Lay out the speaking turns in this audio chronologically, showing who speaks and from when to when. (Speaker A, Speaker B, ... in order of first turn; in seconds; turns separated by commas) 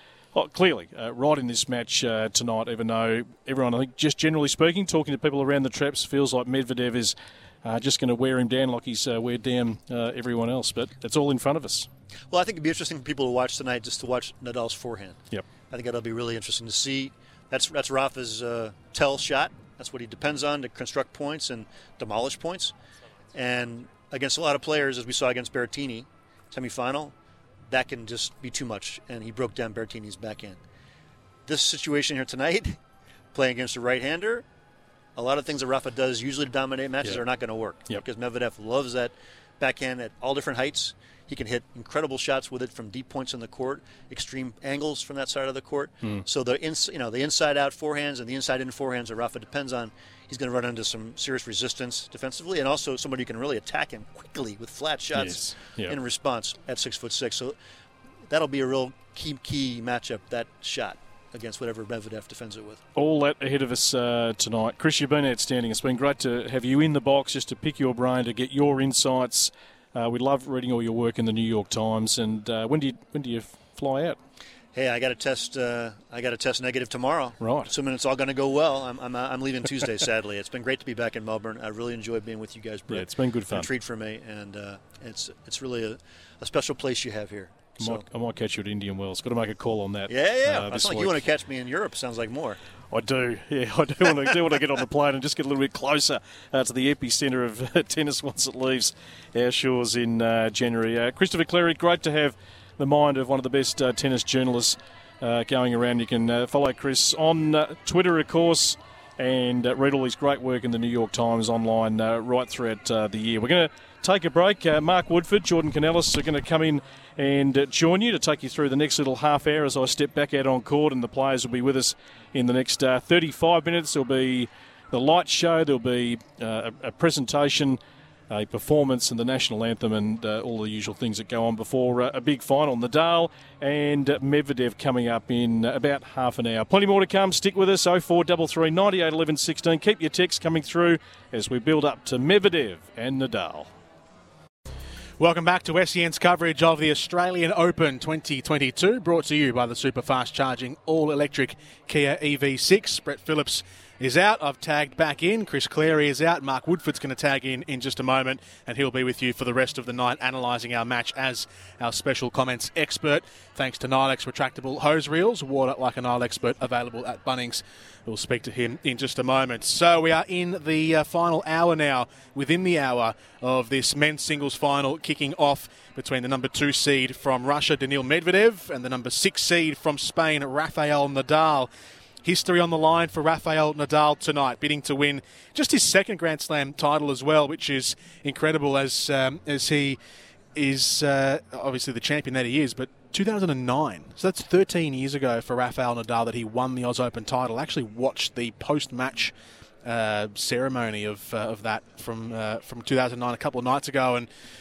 Speaker A: 0.3-11.9, Speaker B: 12.3-22.7, Speaker B: 23.3-27.1, Speaker B: 27.7-30.6, Speaker B: 31.5-32.8, Speaker B: 33.3-34.5, Speaker B: 35.2-57.6, Speaker A: 55.2-56.0, Speaker B: 58.3-62.8, Speaker A: 63.0-74.2, Speaker B: 74.7-88.0, Speaker A: 77.4-77.7, Speaker A: 82.9-83.7, Speaker A: 87.8-91.2, Speaker B: 90.1-92.6, Speaker A: 92.9-127.8, Speaker A: 128.3-143.7, Speaker C: 145.2-181.7, Speaker C: 182.2-190.0, Speaker C: 190.6-204.3